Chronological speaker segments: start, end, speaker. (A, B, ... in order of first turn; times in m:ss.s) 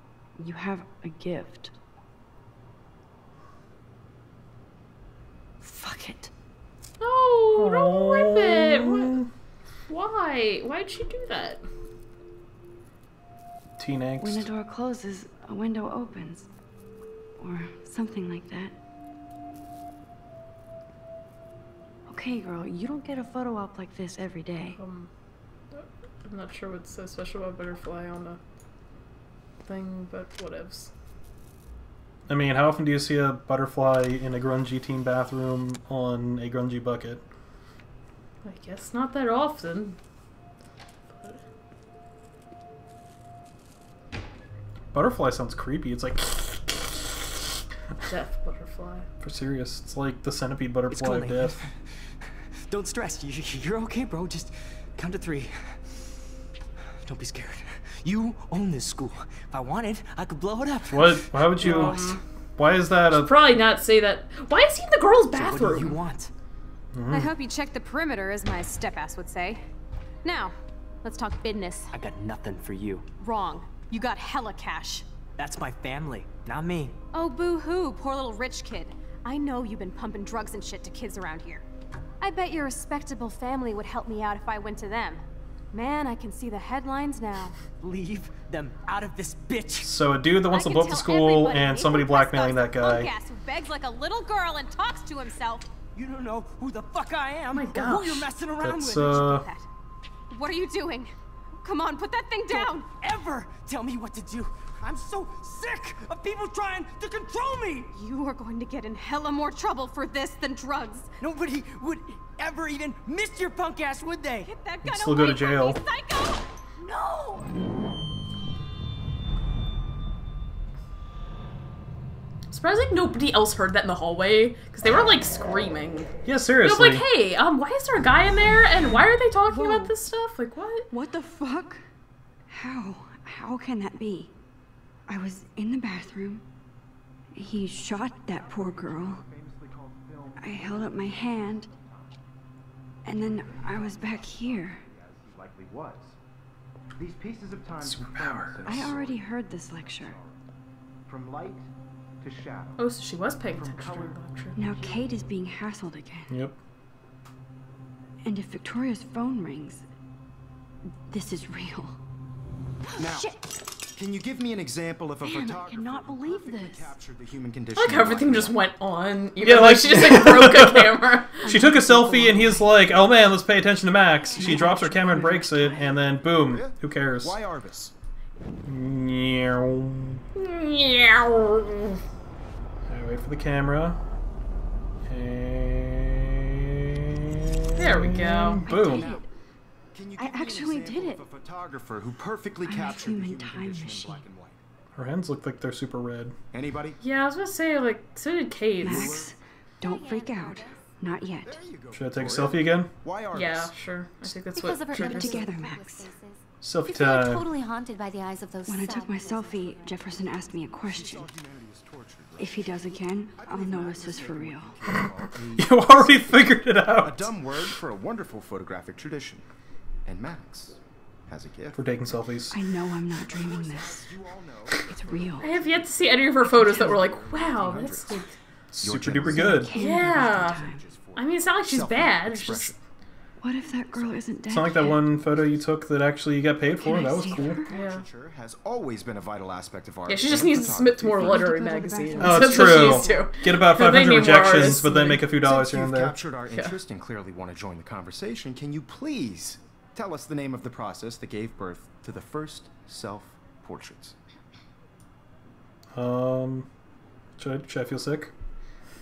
0:00.4-0:01.8 A
0:05.6-0:06.3 A
0:07.0-0:09.2 B
0:07.6-0:09.3 C
0:09.9-0:11.6 B
0:13.8-0:14.4 C
0:14.2-0:16.5 A
0:17.4-0:18.7 A
0:22.1-0:24.8 A
0:24.8-0:25.1 B
0:25.7-0:28.4 B
0:29.6-0:30.9 B
0:32.3-0:37.2 C
0:38.4-0:40.0 B
0:41.1-0:41.4 B
0:44.9-0:47.3 C
0:48.1-0:49.1 B
0:49.2-0:51.6 C
0:50.9-0:51.9 D
0:52.7-0:56.0 D
0:57.0-1:01.9 D
1:00.9-1:02.0 C
1:01.6-1:02.2 B
1:02.6-1:03.6 C
1:03.1-1:06.0 B
1:05.3-1:06.3 D
1:06.9-1:07.3 C
1:07.1-1:09.6 E
1:10.2-1:11.9 E
1:11.9-1:13.0 D
1:13.2-1:15.0 E
1:15.4-1:17.0 D
1:17.1-1:21.6 E
1:22.2-1:27.6 E
1:27.8-1:29.9 D
1:29.8-1:33.1 C
1:30.4-1:35.7 E
1:35.9-1:39.6 D
1:37.5-1:38.3 B
1:38.6-1:39.4 C
1:39.1-1:39.4 E
1:40.3-1:43.0 E
1:42.5-1:47.9 D
1:47.9-1:51.1 E
1:51.2-1:54.5 D
1:54.4-1:57.5 E
1:54.8-1:55.8 C
2:02.5-2:06.1 B
2:06.2-2:07.0 C
2:06.6-2:10.9 B
2:09.5-2:09.9 A
2:10.9-2:11.8 A
2:12.5-2:14.3 A
2:15.1-2:16.4 A
2:17.3-2:19.2 A
2:18.0-2:22.1 F
2:20.4-2:21.7 A
2:23.0-2:24.8 A
2:23.1-2:26.2 F
2:27.0-2:30.4 F
2:27.8-2:28.9 C
2:28.6-2:30.2 A
2:31.1-2:31.7 F
2:32.2-2:32.9 F
2:32.8-2:34.6 B
2:33.4-2:34.9 F
2:34.6-2:36.4 A
2:36.3-2:36.6 C
2:38.2-2:39.8 A
2:41.0-2:42.0 A
2:42.9-2:43.5 A
2:43.0-2:43.3 F
2:43.9-2:48.6 F
2:45.2-2:46.9 A
2:47.7-2:51.4 B
2:49.4-2:57.4 C
2:51.4-2:53.1 A
2:54.3-2:56.0 A
2:56.3-2:57.9 F
2:58.6-3:00.2 C
3:00.3-3:02.0 B
3:02.9-3:04.0 C
3:05.1-3:09.1 C
3:07.7-3:08.6 B
3:08.6-3:09.2 A
3:08.7-3:09.3 F
3:09.9-3:14.6 F
3:10.2-3:11.2 A
3:12.6-3:14.2 A
3:15.0-3:16.3 C
3:16.5-3:17.0 F
3:17.0-3:19.2 B
3:18.8-3:19.3 F
3:18.8-3:21.6 A
3:19.8-3:20.9 G
3:21.4-3:23.7 F
3:21.9-3:22.9 C
3:23.3-3:25.5 B
3:24.5-3:30.7 G
3:24.9-3:26.1 A
3:26.6-3:27.4 C
3:28.6-3:31.3 A
3:30.8-3:39.4 F
3:32.4-3:34.8 A
3:35.6-3:37.3 C
3:40.0-3:42.2 F
3:41.7-3:42.6 C
3:42.5-3:44.1 A
3:43.2-3:52.7 F
3:44.8-3:45.6 A
3:45.4-3:48.3 B
3:46.4-3:47.9 A
3:48.7-3:49.7 C
3:49.2-3:50.8 A
3:49.7-3:50.6 B
3:51.1-3:52.7 B
3:53.4-3:55.3 A
3:53.9-3:54.6 F
3:54.5-3:57.6 C
3:56.7-3:57.7 A
3:57.6-4:01.9 F
3:57.7-3:58.0 B
4:00.1-4:05.2 B
4:01.0-4:03.3 A
4:02.2-4:06.2 C
4:04.4-4:14.1 F
4:15.9-4:16.7 C
4:17.4-4:18.3 C